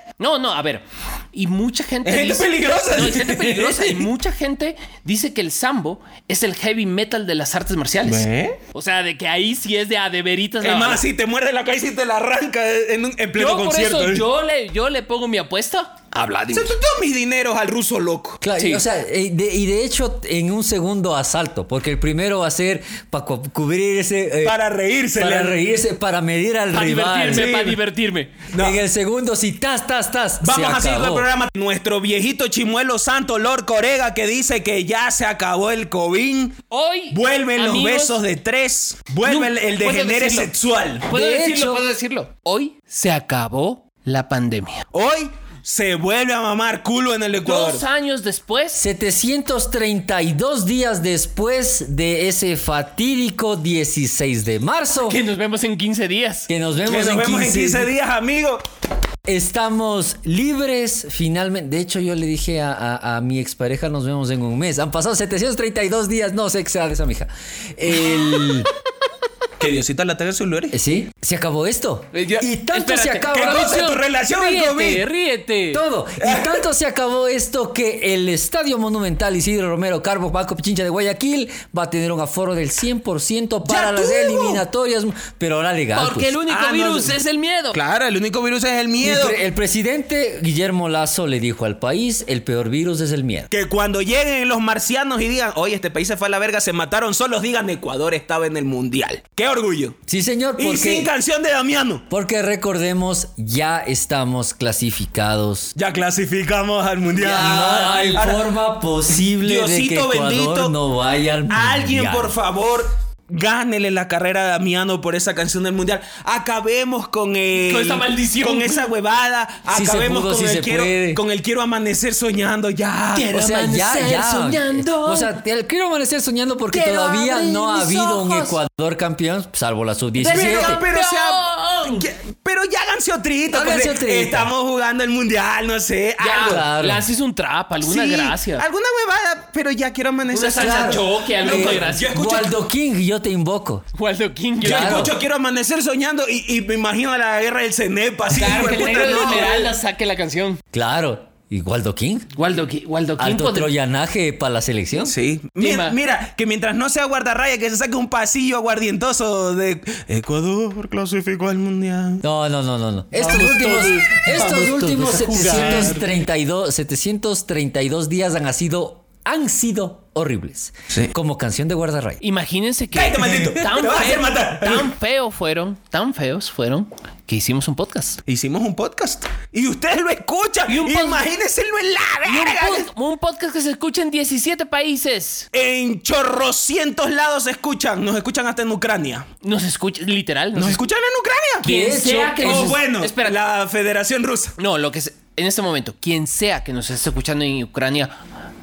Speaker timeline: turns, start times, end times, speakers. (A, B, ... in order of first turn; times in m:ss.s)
0:00.2-0:11.0 A
0:02.0-0:04.1 B
0:08.0-0:08.6 B
0:10.6-0:14.2 B
0:13.3-0:16.7 A
0:16.5-0:18.4 B
0:18.4-0:24.6 C
0:18.6-0:18.8 A
0:24.4-0:25.6 B
0:25.2-0:27.5 C
0:26.7-0:28.3 A
0:27.2-0:27.8 B
0:28.5-0:28.8 B
0:28.5-0:31.3 C
0:30.4-0:36.6 B
0:36.7-0:38.2 A
0:37.1-0:41.1 B
0:39.2-0:40.5 A
0:41.1-0:44.8 A
0:41.1-0:41.8 C
0:44.9-0:47.8 B
0:47.4-0:48.8 A
0:48.7-0:55.2 C
0:55.1-0:56.5 A
0:56.5-0:57.9 C
0:56.8-0:58.6 B
0:59.2-1:08.7 C
1:09.6-1:10.8 B
1:10.7-1:13.7 C
1:12.1-1:15.8 A
1:13.3-1:15.1 B
1:15.7-1:26.3 C
1:16.2-1:16.6 B
1:23.6-1:24.6 B
1:25.9-1:27.8 A
1:26.5-1:27.2 B
1:27.7-1:29.4 B
1:29.0-1:33.5 C
1:33.5-1:40.0 B
1:40.1-1:41.1 C
1:40.6-1:42.0 B
1:42.1-1:45.7 C
1:45.8-1:48.5 B
1:47.2-1:52.3 C
1:47.3-1:48.2 A
1:49.4-1:50.7 B
1:51.5-2:03.3 B
1:57.6-1:58.9 A
1:59.7-2:01.2 C
2:03.1-2:05.3 A
2:03.3-2:10.8 C
2:06.7-2:08.6 A
2:10.2-2:12.1 A
2:10.2-2:16.6 B
2:13.5-2:14.5 C
2:16.2-2:18.6 A
2:16.4-2:17.1 C
2:17.8-2:22.6 B
2:20.3-2:22.1 A
2:20.6-2:23.8 C
2:23.9-2:25.1 A
2:24.6-2:25.1 C
2:24.6-2:29.7 B
2:28.3-2:30.6 A
2:30.7-2:32.3 C
2:32.4-2:33.7 A
2:33.2-2:35.1 C
2:35.0-2:42.2 B
2:35.6-2:36.0 A
2:42.2-2:52.2 C
2:43.2-2:46.0 A
2:44.1-2:46.0 B
2:52.2-2:58.2 A
2:52.9-2:54.9 B
2:58.2-3:02.9 B
3:00.7-3:01.2 A
3:02.2-3:05.5 A
3:05.5-3:09.2 B
3:09.4-3:10.8 A
3:10.5-3:11.7 B
3:11.6-3:12.8 C
3:11.6-3:13.4 A
3:12.4-3:14.5 B
3:14.6-3:18.1 A